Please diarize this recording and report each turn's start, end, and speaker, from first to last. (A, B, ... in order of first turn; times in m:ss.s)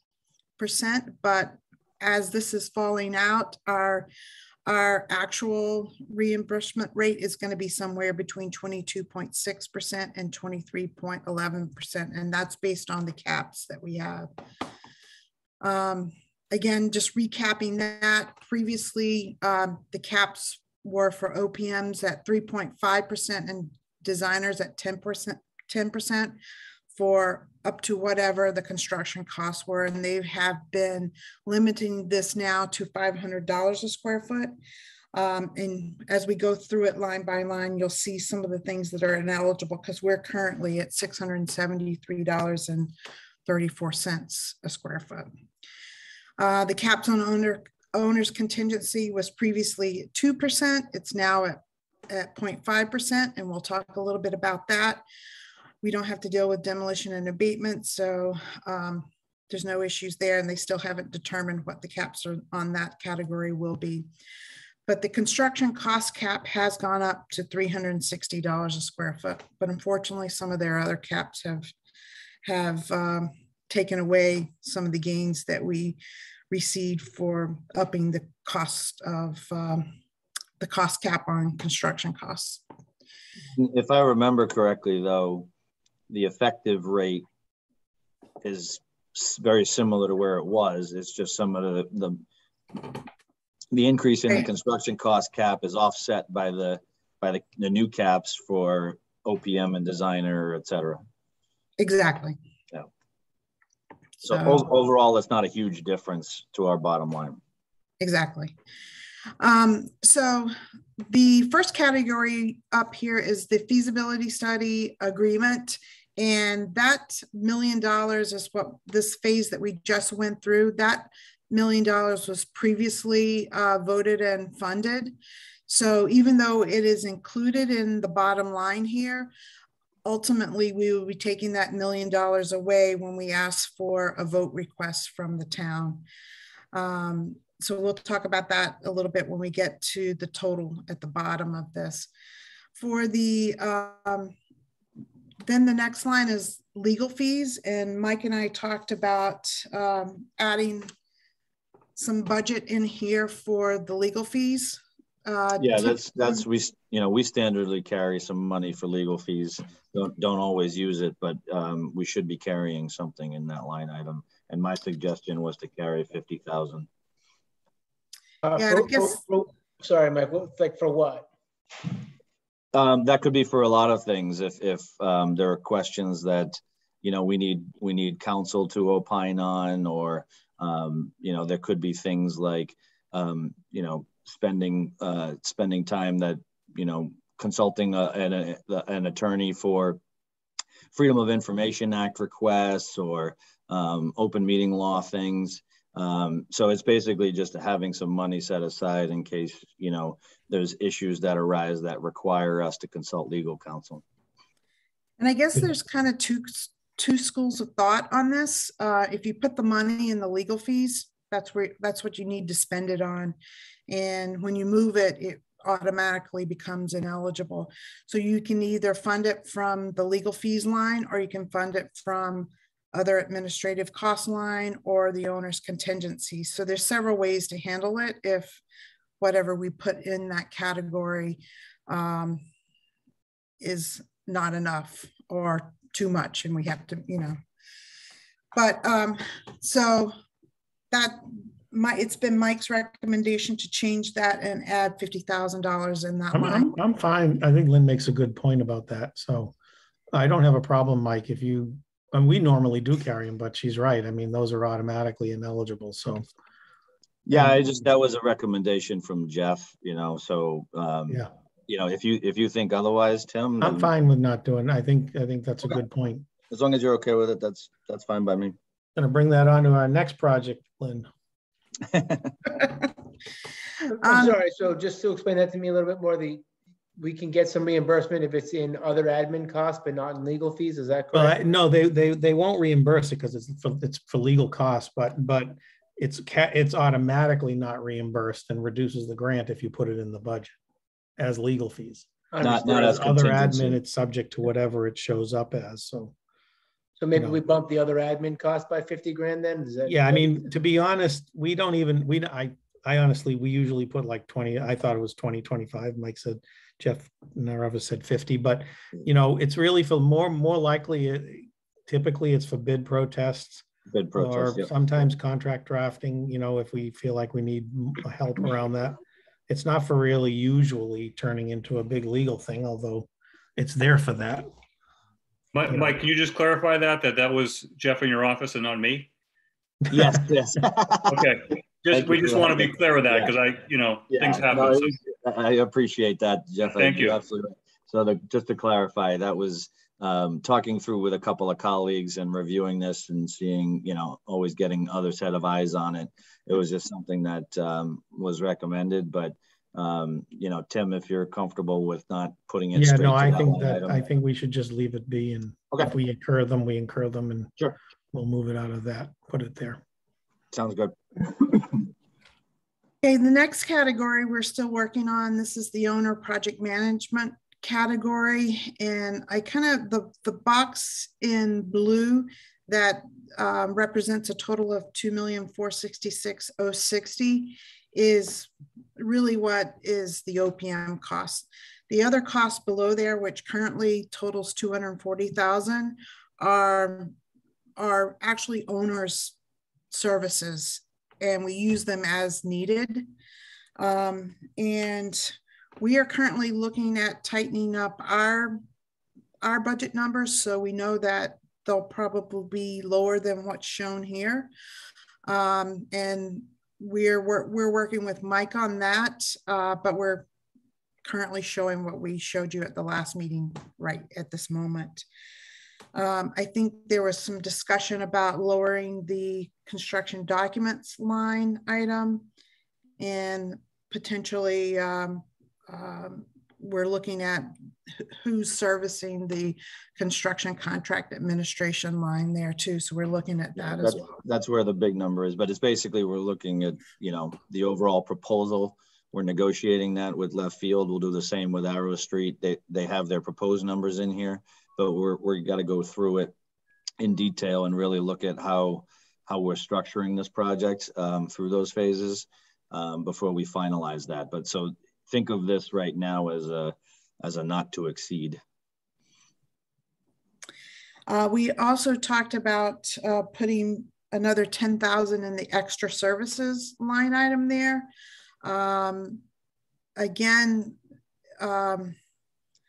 0:00.6-0:04.1 A
0:04.6-0:14.3 A
0:15.6-0:26.4 A
0:26.9-0:34.5 A
0:35.1-0:42.9 A
0:43.4-0:45.3 A
0:46.4-0:55.0 A
0:55.8-1:04.1 A
1:04.9-1:11.7 A
1:12.4-1:16.0 A
1:16.5-1:19.9 A
1:20.6-1:22.6 A
1:23.5-1:25.5 B
1:26.1-1:27.2 B
1:28.4-1:32.2 B
1:33.7-1:41.0 B
1:41.8-1:42.4 A
1:44.2-1:47.4 B
1:44.3-1:44.6 A
1:48.0-1:48.5 A
1:49.4-2:05.1 A
2:05.7-2:09.3 A
2:10.0-2:16.0 A
2:16.7-2:22.1 A
2:22.8-2:24.3 A
2:25.4-2:30.9 A
2:32.0-2:36.4 A
2:35.6-2:46.9 B
2:48.4-2:51.3 C
2:48.6-2:49.2 A
2:52.7-3:10.0 B
3:10.9-3:24.0 B
3:25.2-3:33.4 A
3:33.9-3:48.6 A
3:49.2-3:52.4 A
3:53.6-3:57.4 A
3:58.5-4:00.1 A
4:00.9-4:06.7 A
4:06.3-4:09.5 D
4:10.1-4:16.3 D
4:17.3-4:23.9 B
4:17.3-4:17.6 D
4:23.6-4:26.3 D
4:26.5-4:28.6 B
4:29.0-4:31.1 D
4:31.9-4:32.3 B
4:34.0-4:34.3 A
4:34.0-4:36.4 C
4:37.0-4:41.4 C
4:41.1-4:50.5 D
4:51.2-4:56.1 D
4:52.3-4:53.1 C
4:52.4-4:53.8 B
4:57.0-5:00.4 C
4:57.1-4:57.4 D
4:59.8-5:24.5 D
5:13.9-5:14.7 B
5:25.5-5:29.1 E
5:25.7-5:26.0 D
5:29.9-5:31.2 B
5:31.1-5:34.9 E
5:31.9-5:33.3 B
5:34.1-5:54.0 B
5:36.8-5:37.2 E
5:52.7-5:57.5 D
5:58.1-5:59.8 D
6:00.5-6:01.8 B
6:03.0-6:27.1 A
6:27.8-6:29.3 A
6:29.9-6:33.1 A
6:33.8-6:38.6 A
6:39.4-6:44.5 A
6:45.3-6:50.2 A
6:51.0-6:55.0 A
6:55.9-7:02.2 A
7:03.0-7:14.2 A
7:13.6-7:26.3 B
7:27.0-7:38.4 B
7:41.1-7:47.9 A
7:48.4-7:49.2 A
7:50.0-7:50.8 A
7:51.4-7:52.0 A